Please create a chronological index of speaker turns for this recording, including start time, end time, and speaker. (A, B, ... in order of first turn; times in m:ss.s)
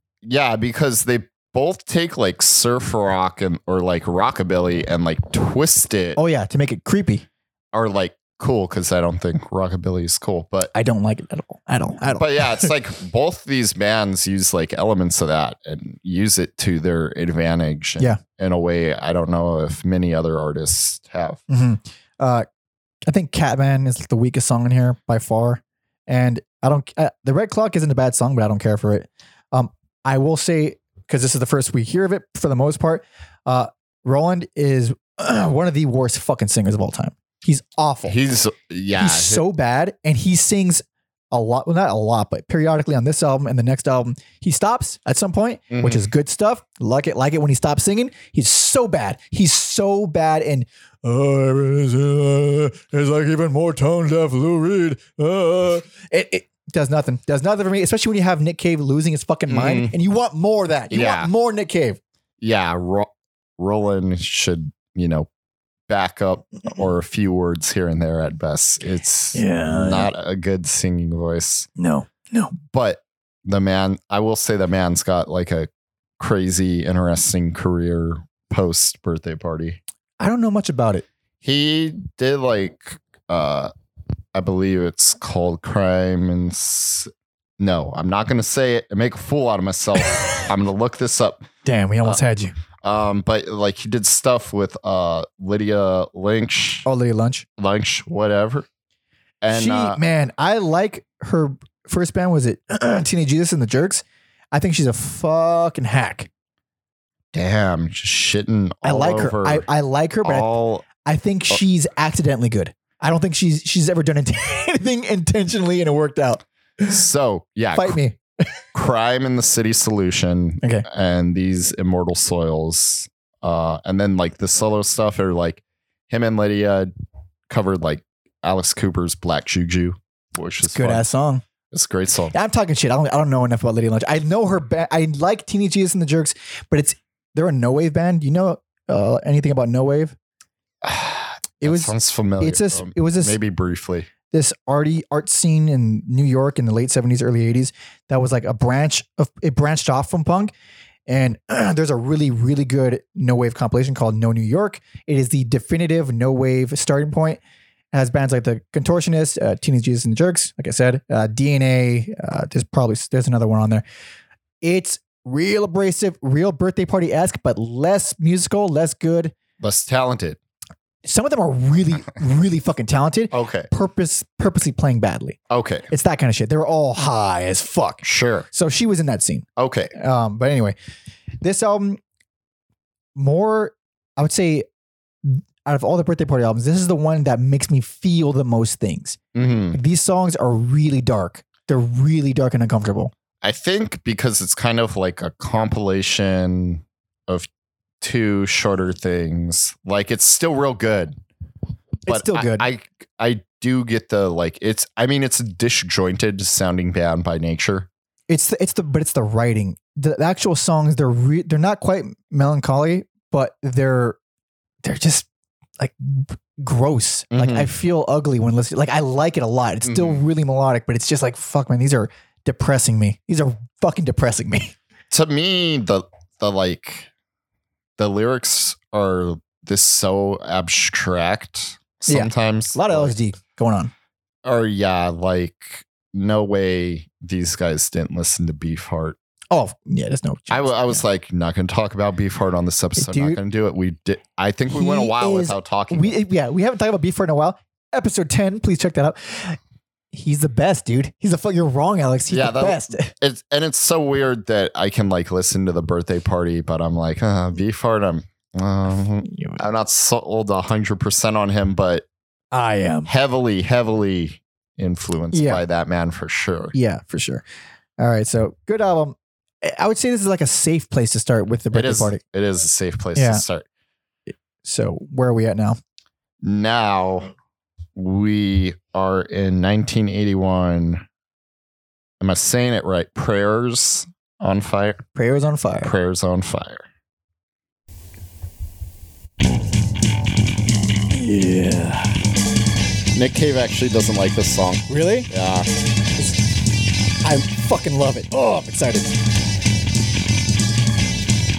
0:00.2-0:06.2 A
0:06.2-0:07.3 B
0:07.7-0:10.7 A
0:10.7-0:12.7 B
0:12.2-0:21.4 A
0:21.5-0:22.5 B
0:23.1-0:38.2 B
0:38.1-0:39.4 A
0:39.0-1:02.0 B
0:45.7-0:46.1 A
0:59.5-0:59.9 A
1:00.9-1:01.3 A
1:02.4-1:05.3 A
1:05.9-1:11.7 A
1:09.3-1:10.1 B
1:11.8-1:12.6 B
1:12.7-1:19.8 A
1:20.2-1:21.1 B
1:21.4-1:23.7 A
1:24.3-1:31.5 A
1:31.6-1:32.6 B
1:32.8-1:36.9 A
1:36.8-1:37.5 B
1:37.6-1:38.7 A
1:39.4-1:40.0 A
1:39.5-1:46.3 B
1:47.3-1:49.7 A
1:48.8-1:57.0 B
1:50.2-1:50.9 A
1:56.9-1:58.0 A
1:57.7-1:58.2 B
1:58.7-2:06.9 A
2:07.5-2:11.1 A
2:10.7-2:11.4 B
2:11.7-2:12.4 A
2:12.3-2:20.2 B
2:20.8-2:24.1 A
2:21.6-2:23.4 B
2:24.3-2:30.5 B
2:31.1-2:37.4 B
2:37.9-2:43.8 B
2:44.6-2:49.3 B
2:49.6-2:50.4 A
2:51.0-2:55.4 B
2:53.3-2:53.7 A
2:55.5-2:55.9 A
2:55.9-3:00.8 B
2:58.0-2:58.5 A
2:59.6-2:59.9 A
3:01.4-3:02.0 B
3:03.2-3:04.7 B
3:05.2-3:09.2 B
3:09.3-3:09.8 A
3:09.7-3:13.1 B
3:13.4-3:17.5 A
3:18.0-3:21.2 A
3:22.1-3:22.7 B
3:22.1-3:27.9 A
3:28.3-3:34.2 B
3:34.8-3:35.3 B
3:35.8-3:44.8 B
3:37.3-3:37.7 A
3:39.8-3:40.2 A
3:45.1-3:47.1 A
3:48.0-3:53.2 A
3:52.1-3:53.9 B
3:54.4-3:59.2 A
3:59.5-4:01.0 B
4:00.5-4:06.2 A
4:03.0-4:03.4 B
4:04.7-4:09.6 B
4:10.1-4:13.1 B
4:12.3-4:22.0 A
4:19.2-4:19.6 B
4:22.5-4:23.1 B
4:23.1-4:26.8 A
4:25.3-4:25.6 B
4:26.7-4:27.4 B
4:28.0-4:32.2 B
4:31.7-4:33.7 A
4:33.2-4:33.4 B
4:34.6-4:35.8 B
4:36.4-4:37.3 A
4:38.0-4:41.0 A
4:42.2-4:45.0 A
4:45.2-4:45.9 B
4:45.8-4:46.9 A
4:51.1-4:52.2 B
4:53.1-4:55.7 A
4:54.9-4:55.3 B
4:57.2-4:59.2 B